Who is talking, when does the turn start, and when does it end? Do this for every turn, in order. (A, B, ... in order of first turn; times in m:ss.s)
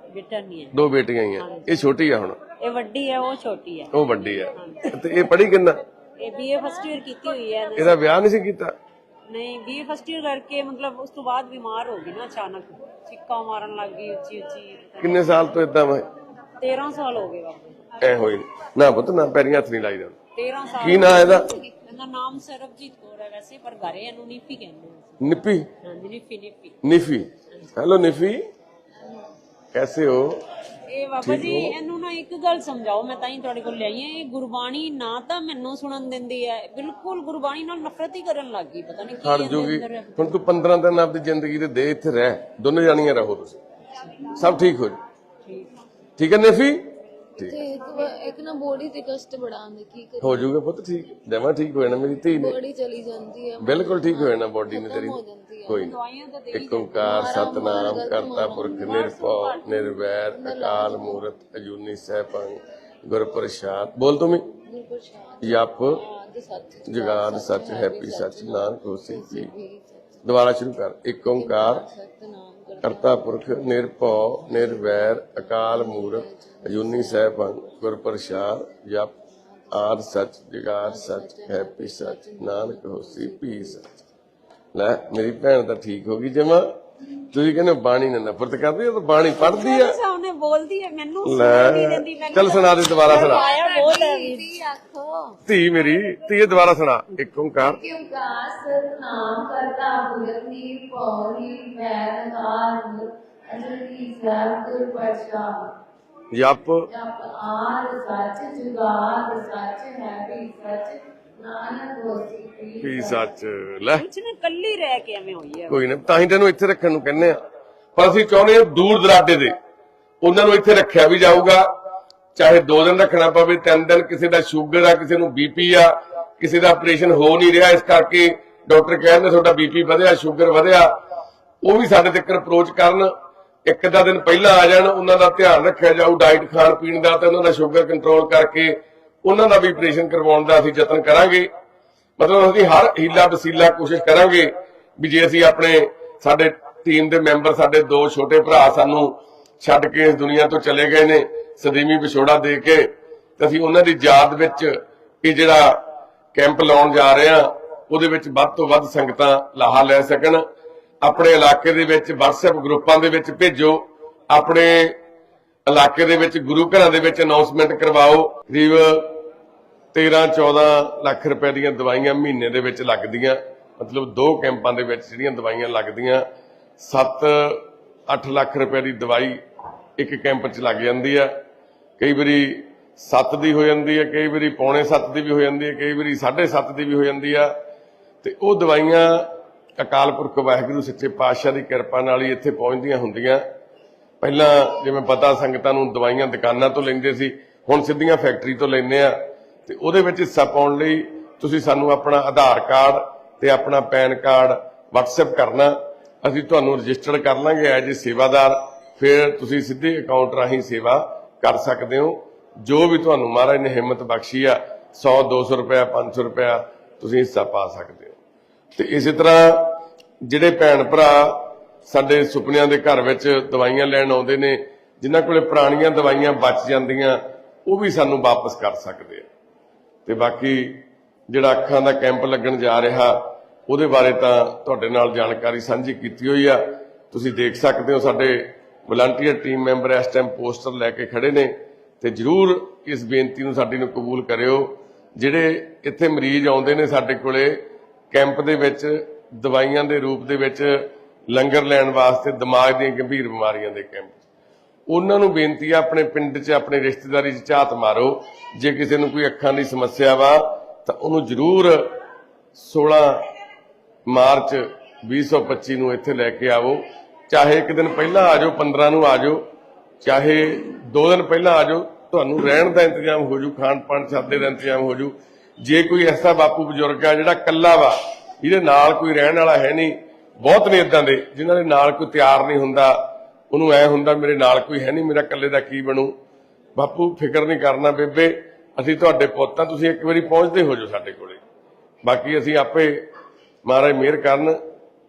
0:00.1-0:00.7 A
0:00.7-0:02.4 B
0:01.4-0:01.7 A
0:02.6-0:03.9 A
0:03.9-0:05.8 B
0:04.5-0:04.8 A
0:06.2-0:08.0 A
0:07.8-0:08.7 B
0:09.3-0:15.3 A
0:15.0-0:16.0 B
0:16.6-0:18.0 A
0:18.0-0:20.2 B
0:20.3-0:25.2 A
0:20.8-0:21.5 B
0:25.2-0:25.7 B
0:25.8-0:26.8 A
0:26.8-0:28.4 B
0:29.0-0:29.3 C
0:29.7-0:30.4 B
0:30.9-0:40.3 A
0:31.2-0:31.8 B
0:39.2-0:43.6 B
0:44.0-0:44.3 A
0:44.4-0:45.0 B
0:45.4-0:45.7 A
0:46.2-0:47.6 B
0:47.4-0:50.5 C
0:50.2-0:52.6 B
0:52.3-0:55.9 C
0:53.6-0:55.9 B
0:55.8-0:57.3 A
0:56.5-1:04.5 B
0:57.0-0:59.0 C
0:58.8-0:59.6 A
1:00.1-1:01.2 C
1:04.6-1:10.4 C
1:05.4-1:06.0 B
1:06.9-1:09.5 B
1:10.2-1:11.8 B
1:11.2-1:13.7 C
1:12.8-1:19.1 B
1:14.3-1:20.0 C
1:19.7-1:23.8 B
1:20.7-1:23.8 C
1:24.7-1:26.7 B
1:27.3-1:30.0 B
1:29.4-1:34.5 A
1:31.2-1:33.4 B
1:33.1-1:35.4 C
1:35.4-1:37.8 B
1:37.6-1:45.7 C
1:46.3-1:46.9 B
1:46.9-1:53.2 C
1:52.8-1:54.0 B
1:54.0-1:55.8 A
1:55.7-1:57.4 B
1:58.0-1:59.5 B
2:00.2-2:01.7 B
2:02.3-2:10.9 B
2:11.6-2:13.1 B
2:13.6-2:21.5 B
2:22.2-2:35.8 B
2:36.3-2:40.4 B
2:41.0-2:45.0 B
2:45.6-2:49.2 B
2:49.9-2:56.2 B
2:56.8-2:59.4 B
3:00.0-3:01.3 B
3:02.0-3:07.5 B
3:08.2-3:13.4 B
3:14.2-3:38.2 B
3:38.7-3:49.3 B
3:50.0-4:07.6 B
4:08.1-4:14.2 B
4:14.9-4:21.9 B
4:22.5-4:23.2 B
4:24.1-4:29.4 B
4:30.0-4:46.1 B
4:46.8-4:51.4 B
4:52.0-4:53.0 B
4:53.6-4:54.6 B